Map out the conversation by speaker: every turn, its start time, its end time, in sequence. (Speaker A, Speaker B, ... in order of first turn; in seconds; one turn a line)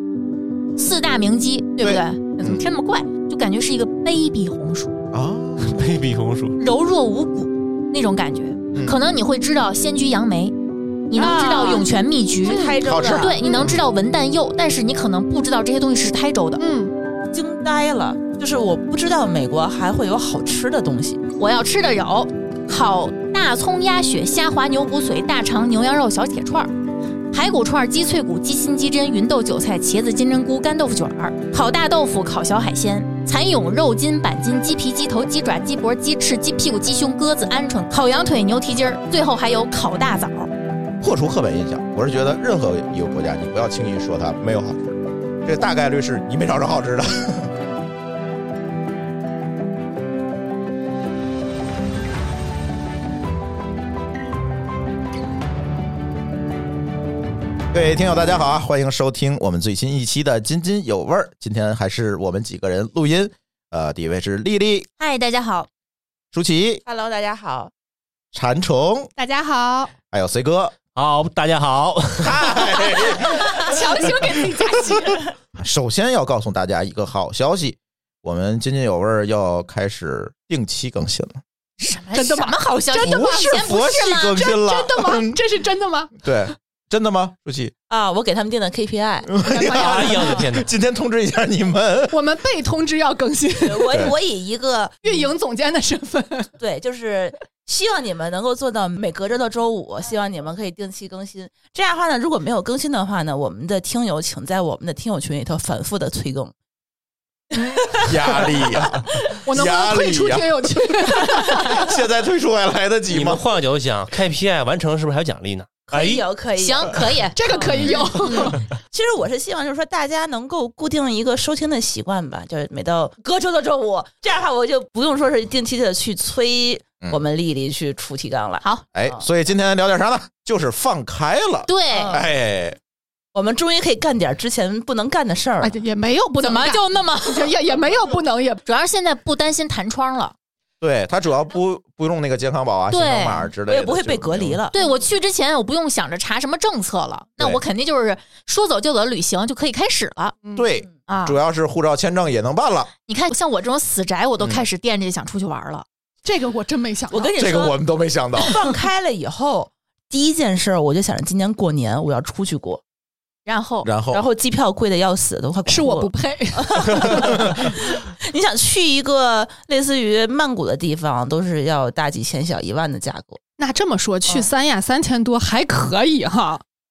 Speaker A: 0.8-5.0
Speaker B: 1.8-2.6
Speaker B: 5.1-5.7
Speaker C: 5.6-6.6
Speaker A: 6.6-10.6
Speaker B: 8.7-9.0
Speaker A: 11.1-16.6
Speaker D: 11.1-11.9
Speaker D: 12.4-13.4
Speaker E: 12.4-12.8
Speaker B: 12.8-13.8
Speaker E: 13.4-13.7
Speaker E: 16.6-16.9
Speaker D: 17.3-21.2
Speaker A: 21.4-26.7
Speaker A: 27.3-40.5
Speaker B: 41.0-47.5
Speaker B: 57.7-64.9
Speaker A: 65.0-65.7
Speaker B: 66.3-66.8
Speaker D: 66.9-67.7
Speaker B: 68.3-69.1
Speaker E: 69.2-69.9
Speaker B: 70.1-70.8
Speaker C: 71.0-72.6
Speaker B: 72.2-74.7
Speaker E: 73.0-75.2
Speaker B: 75.6-81.4
Speaker A: 81.8-84.5
Speaker E: 82.1-83.8
Speaker B: 83.0-85.4
Speaker E: 84.3-86.2
Speaker B: 86.2-87.7
Speaker D: 87.9-89.4
Speaker B: 89.3-92.2
Speaker E: 89.5-90.4
Speaker C: 89.8-90.7
Speaker E: 92.1-93.9
Speaker D: 93.6-95.3
Speaker B: 93.9-94.2
Speaker E: 95.0-96.5
Speaker D: 96.6-106.5
Speaker D: 107.8-108.5
Speaker B: 108.0-113.4
Speaker E: 109.5-111.9
Speaker C: 113.1-116.2
Speaker D: 115.9-117.7
Speaker A: 116.6-118.5
Speaker E: 117.4-118.6
Speaker D: 118.9-129.2
Speaker B: 128.9-132.8
Speaker A: 131.7-132.2
Speaker D: 131.9-132.2
Speaker D: 133.3-135.8
Speaker E: 135.6-138.6
Speaker A: 136.4-137.5
Speaker A: 138.6-140.3
Speaker B: 140.8-144.6
Speaker A: 142.9-143.5
Speaker D: 143.7-144.8
Speaker A: 144.7-150.3
Speaker E: 150.4-150.7
Speaker B: 150.6-152.9
Speaker A: 151.1-151.4
Speaker A: 153.1-155.8
Speaker B: 154.4-154.6
Speaker E: 156.2-157.3
Speaker D: 157.1-157.8
Speaker B: 157.4-158.5
Speaker D: 158.3-162.8
Speaker A: 163.4-163.9
Speaker B: 163.8-164.2
Speaker D: 164.1-173.4
Speaker E: 165.7-167.7
Speaker E: 173.6-176.6